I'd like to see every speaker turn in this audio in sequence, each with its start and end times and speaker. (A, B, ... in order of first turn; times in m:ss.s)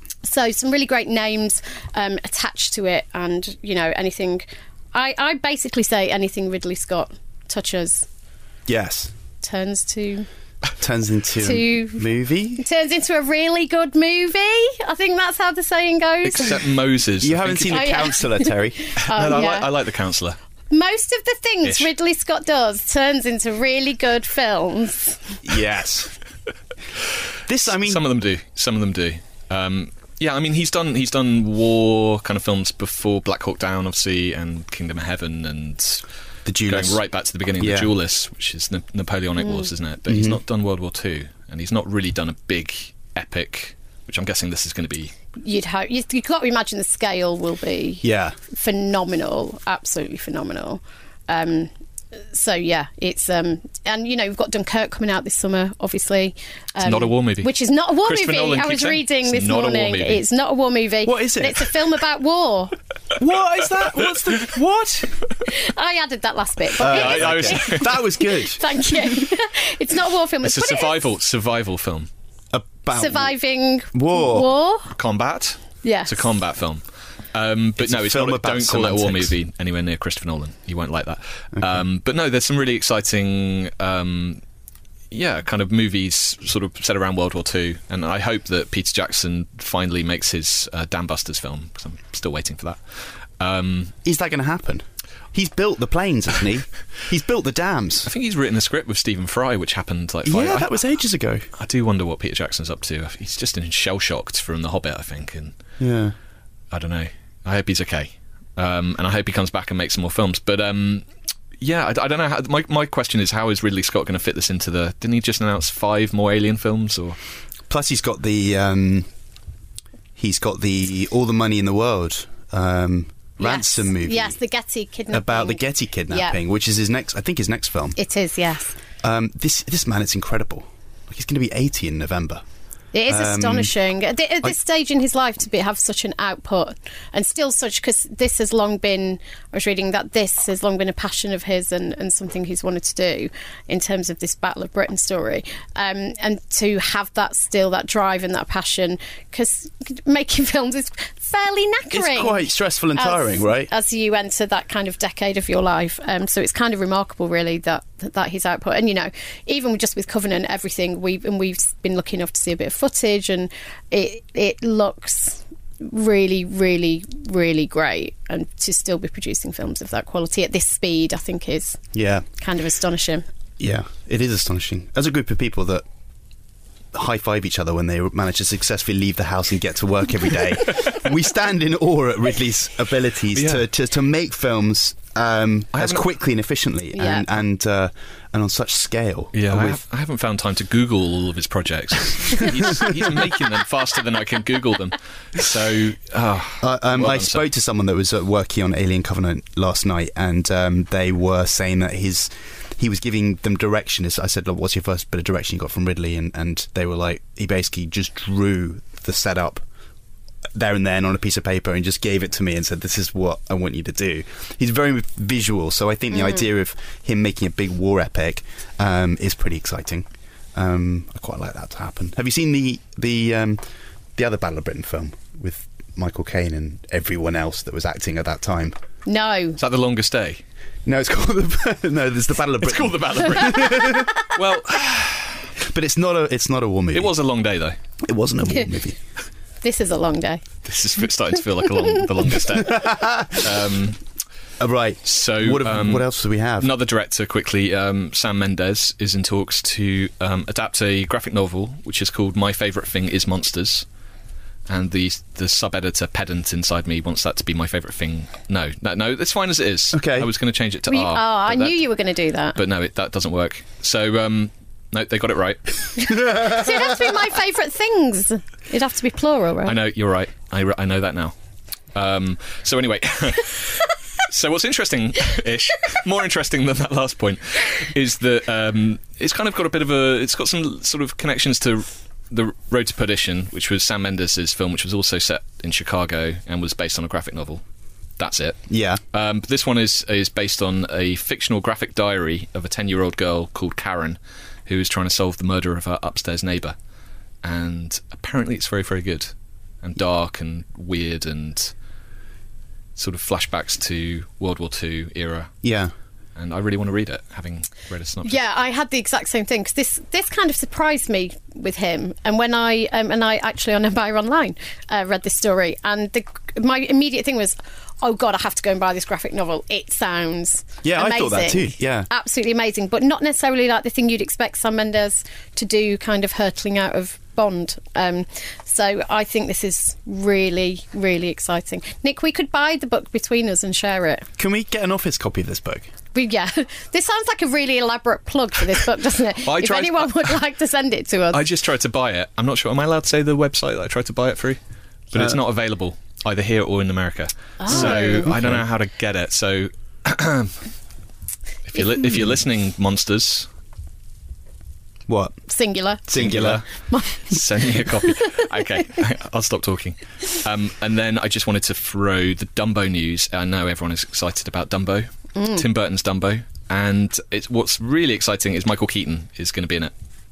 0:00.2-0:08.1 A
0:08.7-0:09.1 B
0:09.4-0:10.3 A
0:10.8-0:12.6 B
0:11.4-0:12.0 A
0:12.6-0:16.6 A
0:16.2-0:18.1 C
0:17.2-0:18.9 B
0:17.7-0:19.7 A
0:19.0-0:20.4 C
0:20.7-0:25.4 A
0:21.6-0:21.9 C
0:25.4-0:26.1 B
0:27.5-0:28.0 B
0:27.7-0:36.0 C
0:36.4-0:37.0 B
0:36.6-0:45.1 C
0:37.6-0:37.9 B
0:39.4-0:39.7 A
0:40.1-0:40.4 B
0:45.4-1:02.7 A
0:48.0-0:48.4 B
0:56.8-1:00.2 C
1:01.0-1:01.7 B
1:03.2-1:05.1 B
1:05.4-1:11.0 A
1:06.8-1:08.6 B
1:06.8-1:08.0 C
1:10.4-1:12.1 C
1:12.5-1:13.3 B
1:12.9-1:14.9 A
1:13.9-1:14.5 B
1:14.9-1:16.8 C
1:15.8-1:16.2 A
1:17.3-1:24.4 C
1:17.8-1:19.3 B
1:25.1-1:33.9 C
1:34.0-1:38.1 B
1:38.0-1:40.8 C
1:40.2-1:41.5 B
1:41.5-1:45.6 C
1:45.8-1:46.1 B
1:46.7-1:51.0 C
1:51.6-1:57.2 C
1:57.7-1:59.1 B
2:00.2-2:04.4 B
2:03.4-2:06.4 A
2:05.1-2:08.0 B
2:08.0-2:08.8 A
2:09.0-2:12.4 B
2:12.9-2:51.8 A
2:13.1-2:13.7 B
2:31.9-2:33.7 B
2:51.9-2:52.2 B
2:52.4-2:53.2 A
2:53.6-2:55.8 B
2:56.9-3:09.8 B
3:03.3-3:03.6 C
3:05.7-3:06.0 C
3:06.9-3:07.3 A
3:09.3-3:17.4 C
3:16.6-3:29.6 B
3:30.5-3:43.6 B
3:36.1-3:36.4 A
3:44.2-3:48.7 B
3:49.0-3:49.6 A
3:49.6-3:50.4 C
3:50.8-3:54.1 B
3:52.6-3:55.5 C
3:55.6-3:57.1 B
3:56.9-3:57.8 C
3:58.0-3:59.0 B
3:59.6-4:00.4 A
4:00.6-4:04.0 C
4:02.6-4:03.5 B
4:04.6-4:06.7 B
4:05.0-4:06.1 C
4:06.6-4:13.8 C
4:14.7-4:21.8 C
4:19.9-4:20.3 B
4:20.9-4:22.6 A
4:22.5-4:26.1 C
4:26.0-4:29.8 A
4:26.2-4:26.6 B
4:29.6-4:31.3 C
4:31.9-4:47.6 C
4:48.2-4:48.6 C
4:48.7-4:49.0 B
4:49.1-4:56.8 C
4:57.4-5:01.7 C
5:03.0-5:05.5 C
5:05.6-5:05.9 B
5:06.4-5:08.4 C
5:08.2-5:34.3 A
5:20.8-5:22.1 B
5:34.4-5:35.9 B
5:36.1-5:41.4 A
5:39.4-5:40.4 C
5:41.3-5:44.6 C
5:45.1-5:50.6 C
5:47.6-5:48.3 A
5:47.7-5:48.6 B
5:51.7-5:53.5 C
5:55.1-5:55.4 B
5:55.5-5:56.1 A
5:56.1-5:56.6 B
5:56.1-5:56.6 C
5:56.9-5:57.4 A
5:57.3-6:09.9 C
5:58.0-5:58.4 A
6:05.4-6:05.6 A